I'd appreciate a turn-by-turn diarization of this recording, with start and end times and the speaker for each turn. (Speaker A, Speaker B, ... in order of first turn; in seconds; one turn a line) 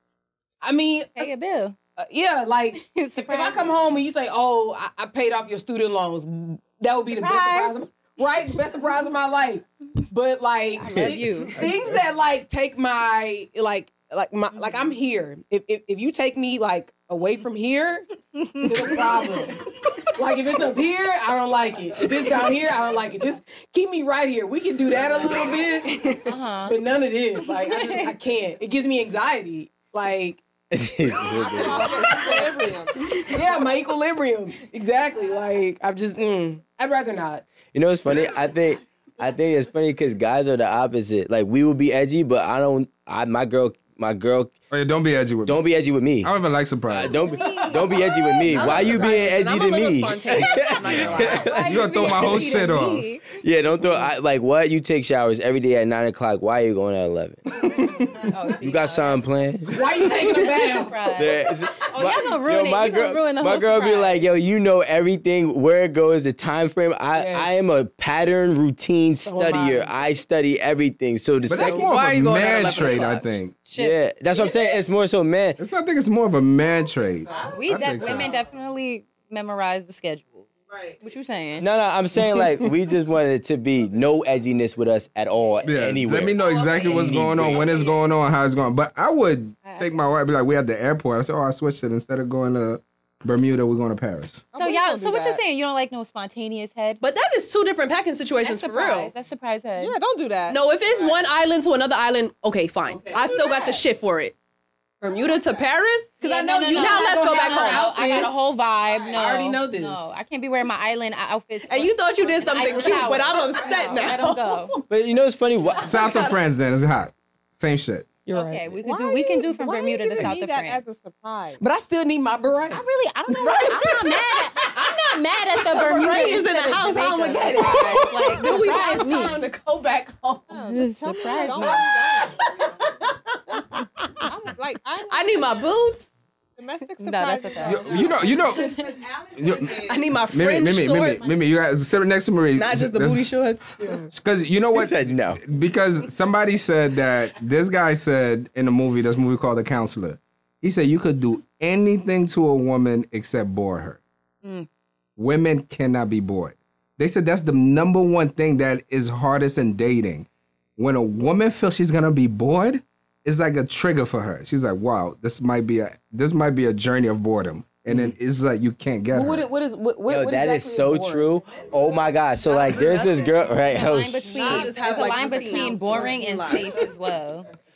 Speaker A: 0.6-1.3
Speaker B: 1.1-1.8
Speaker A: 2.0-30.4
Speaker B: 2.8-3.8
Speaker B: 7.0-7.7
Speaker B: 10.8-11.6
Speaker C: 11.6-11.9
Speaker B: 18.4-19.0
Speaker B: 25.9-26.8
Speaker B: 27.4-28.1
Speaker D: 30.7-32.1
Speaker E: 31.3-33.2
Speaker B: 31.6-33.3
Speaker A: 32.1-32.4
Speaker A: 33.2-37.4
Speaker D: 37.7-44.5
Speaker C: 44.7-45.6
Speaker D: 45.4-46.3
Speaker C: 46.2-47.8
Speaker D: 46.9-52.4
Speaker B: 47.1-48.5
Speaker C: 48.5-49.3
Speaker F: 48.5-51.5
Speaker B: 50.3-53.3
Speaker A: 51.1-52.5
Speaker C: 51.6-53.1
Speaker D: 53.3-57.9
Speaker B: 57.6-59.4
Speaker D: 58.6-60.2
Speaker A: 59.7-61.1
Speaker B: 60.0-64.2
Speaker D: 61.1-71.9
Speaker A: 67.1-67.5
Speaker A: 69.2-69.9
Speaker C: 71.5-73.6
Speaker F: 71.6-73.3
Speaker B: 73.7-74.5
Speaker D: 73.7-75.6
Speaker C: 75.6-78.3
Speaker E: 77.2-78.3
Speaker B: 77.5-80.5
Speaker E: 80.7-81.0
Speaker B: 81.0-81.7
Speaker D: 81.6-87.7
Speaker B: 85.3-85.8
Speaker C: 85.6-94.5
Speaker B: 86.3-88.0
Speaker B: 89.6-89.9
Speaker E: 94.5-95.4
Speaker B: 94.5-97.0
Speaker F: 97.0-99.1
Speaker B: 98.4-100.0
Speaker E: 99.8-100.6
Speaker F: 100.5-104.3
Speaker F: 105.0-108.3
Speaker B: 106.2-114.8
Speaker A: 106.2-108.4
Speaker A: 109.1-110.2
Speaker F: 111.7-114.6
Speaker E: 112.3-113.4
Speaker D: 114.8-116.0
Speaker F: 115.8-116.4
Speaker C: 115.8-118.1
Speaker A: 118.2-118.7
Speaker B: 118.3-120.8
Speaker E: 118.8-121.6
Speaker A: 121.6-122.8
Speaker B: 122.7-129.4
Speaker A: 123.4-124.2
Speaker A: 125.5-129.5
Speaker F: 125.8-130.7
Speaker E: 130.5-132.9
Speaker B: 130.7-131.9
Speaker A: 131.5-131.8
Speaker F: 132.2-133.6
Speaker E: 134.2-135.7
Speaker F: 135.1-136.1
Speaker E: 136.6-139.9
Speaker B: 137.0-139.0
Speaker C: 137.6-138.8
Speaker C: 139.3-143.2
Speaker F: 139.9-141.2
Speaker F: 142.6-143.8
Speaker E: 143.8-144.1
Speaker C: 144.1-154.0
Speaker D: 144.7-145.4
Speaker C: 155.2-169.5
Speaker D: 167.9-168.1
Speaker A: 169.1-171.5
Speaker D: 170.1-174.4
Speaker F: 172.4-173.7
Speaker B: 173.6-177.5
Speaker A: 174.2-176.2
Speaker F: 174.3-176.8
Speaker E: 174.4-176.6